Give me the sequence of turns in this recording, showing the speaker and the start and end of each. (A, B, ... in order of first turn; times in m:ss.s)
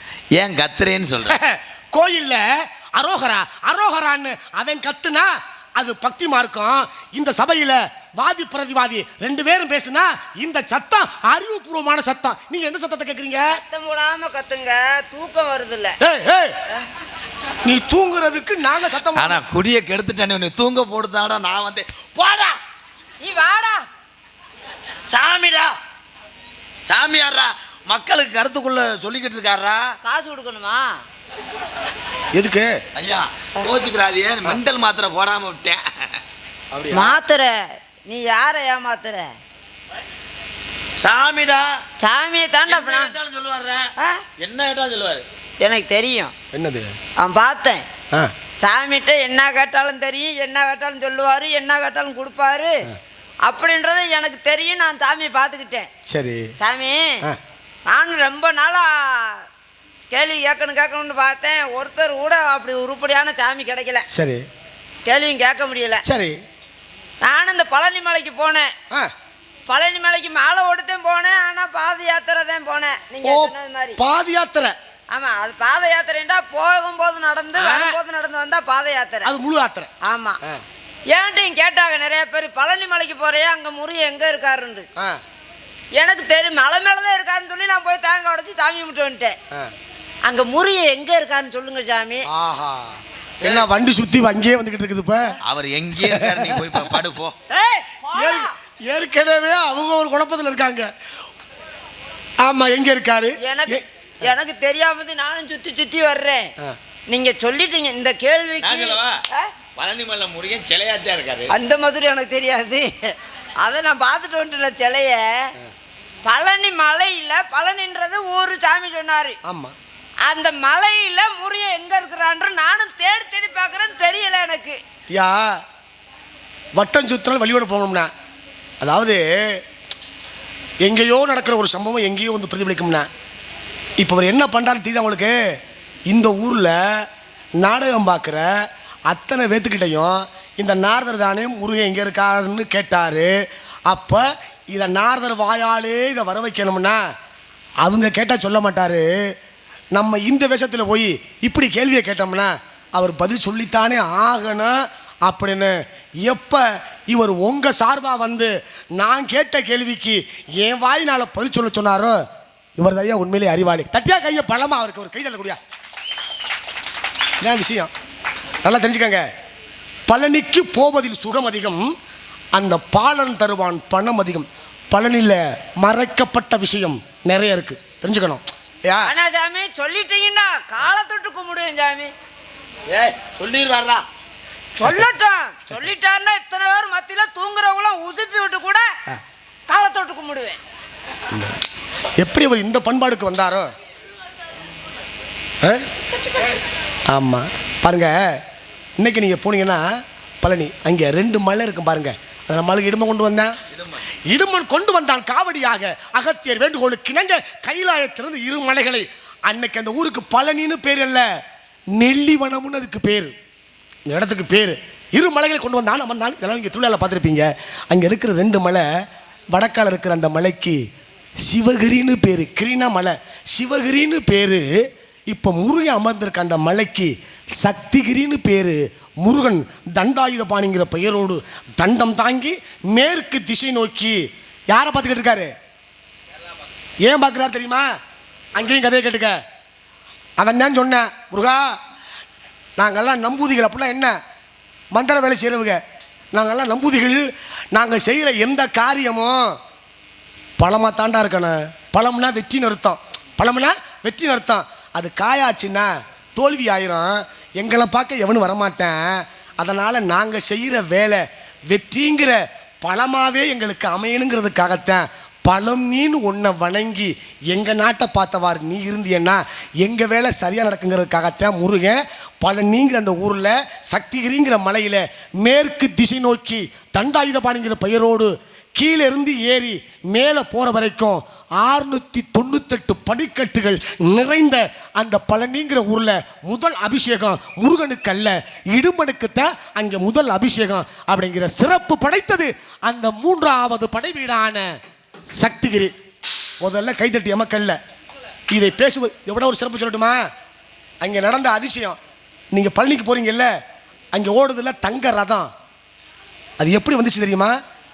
0:00.4-0:01.4 A
0:01.3-0:13.6 B
0:13.5-0:16.0 C
0:16.0-0:16.6 B
0:17.6-0:19.4 B
0:19.2-0:22.6 A
0:23.2-0:23.9 C
0:25.1-0:25.7 A
0:26.9-0:30.0 A
0:30.0-0:31.0 C
0:32.3-0:32.7 B
0:33.0-0:35.8 A
0:36.7-0:37.2 B
0:36.9-0:39.3 C
0:41.0-0:41.8 A
0:42.0-0:43.1 C
0:42.7-0:45.2 A
0:44.0-0:44.2 C
0:45.6-0:46.3 C
0:46.5-0:47.0 B
0:47.2-0:47.8 C
0:48.6-0:52.9 C
0:53.4-0:55.9 C
0:56.1-0:56.5 B
0:56.6-0:57.2 C
0:57.9-0:59.4 C
1:00.1-1:04.0 C
1:04.1-1:04.5 B
1:05.1-1:06.0 C
1:06.0-1:06.4 B
1:07.2-1:08.7 C
1:09.7-1:14.0 C
1:13.2-1:14.8 B
1:15.1-1:19.3 C
1:17.6-1:18.0 B
1:19.2-1:19.9 B
1:20.0-1:20.4 C
1:21.1-1:24.9 C
1:26.0-1:29.4 C
1:30.3-1:32.3 C
1:32.3-1:35.3 B
1:35.5-1:37.4 A
1:36.0-1:36.8 B
1:37.5-1:38.5 C
1:38.1-1:40.9 B
1:42.4-1:43.8 B
1:43.4-1:46.5 C
1:47.1-1:49.5 C
1:48.6-1:49.2 A
1:49.8-1:51.5 A
1:51.5-1:55.5 C
1:56.2-1:59.4 C
1:59.4-1:59.8 B
2:00.2-2:04.8 C
2:05.1-2:05.6 B
2:06.8-2:08.1 B
2:08.8-2:09.6 B
2:10.8-2:13.1 B
2:14.0-2:15.4 B
2:16.1-2:17.1 B
2:17.6-2:18.5 B
2:19.1-2:23.3 B
2:23.9-2:27.0 B
2:27.8-2:29.1 B
2:29.9-2:42.2 B
2:42.8-2:45.6 B
2:47.4-2:47.9 B
2:48.6-2:49.2 B
2:50.1-2:51.9 B
2:52.6-2:59.1 B
2:59.0-3:02.1 C
3:02.9-3:04.0 A
3:04.8-3:08.9 C
3:09.7-3:10.6 C
3:11.3-3:11.6 B
3:12.2-3:13.7 B
3:17.1-3:18.4 B
3:19.0-3:19.9 B
3:20.4-3:23.6 B
3:24.3-3:31.3 B
3:31.9-3:33.3 B
3:34.1-3:40.8 B
3:41.4-3:44.8 B
3:45.3-3:54.2 B
3:54.7-3:55.5 B
3:57.0-3:57.9 B
3:58.6-3:59.4 B
4:00.4-4:01.8 B
4:02.8-4:04.2 B
4:04.9-4:05.8 B
4:06.3-4:09.6 B
4:10.6-4:54.7 B
4:55.4-4:56.0 B
4:56.6-4:57.8 B
4:58.5-5:00.2 B
5:01.0-5:02.0 B
5:02.5-5:03.5 B
5:04.1-5:05.5 B
5:06.6-5:07.6 B